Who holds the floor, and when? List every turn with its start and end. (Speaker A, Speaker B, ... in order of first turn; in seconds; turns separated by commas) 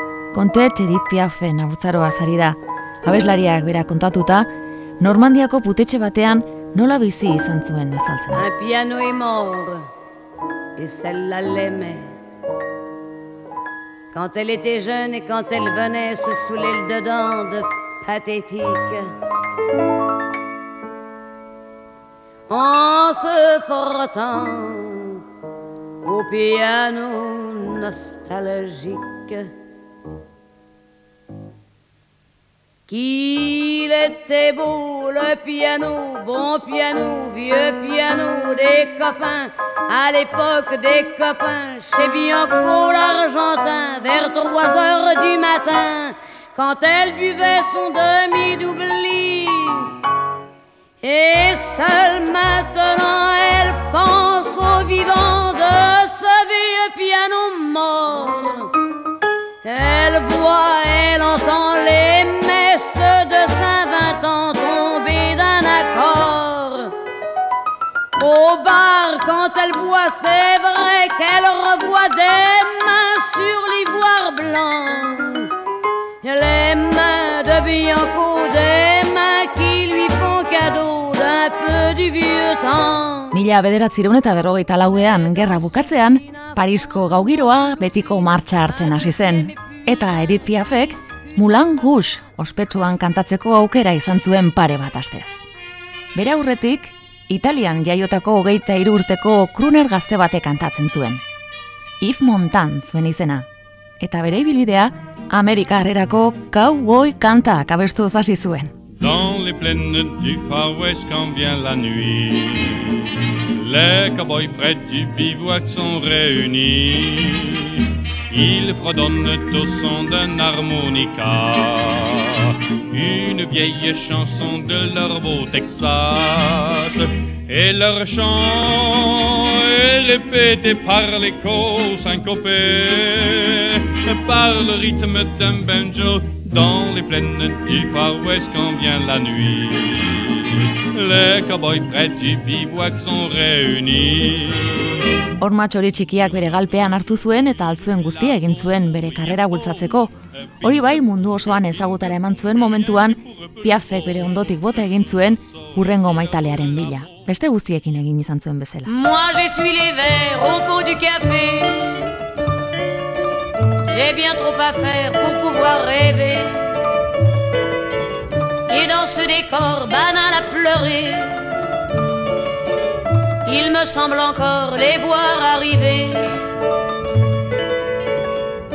Speaker A: 0.3-8.5, Speaker B: 8.3-9.9, Speaker B: 10.8-12.1, Speaker B: 14.1-19.1, Speaker B: 22.5-25.2, Speaker B: 26.0-29.5, Speaker B: 32.9-49.9, Speaker B: 51.0-58.7, Speaker B: 59.6-67.0, Speaker B: 68.2-75.5, Speaker B: 76.2-83.4, Speaker A: 83.3-95.4, Speaker A: 96.2-101.2, Speaker A: 102.0-103.5, Speaker A: 104.0-108.7, Speaker C: 109.0-144.8, Speaker A: 145.4-158.9, Speaker C: 147.8-150.1, Speaker C: 150.6-157.3, Speaker B: 158.8-162.1, Speaker B: 163.9-166.7, Speaker B: 168.7-171.5, Speaker B: 173.4-176.4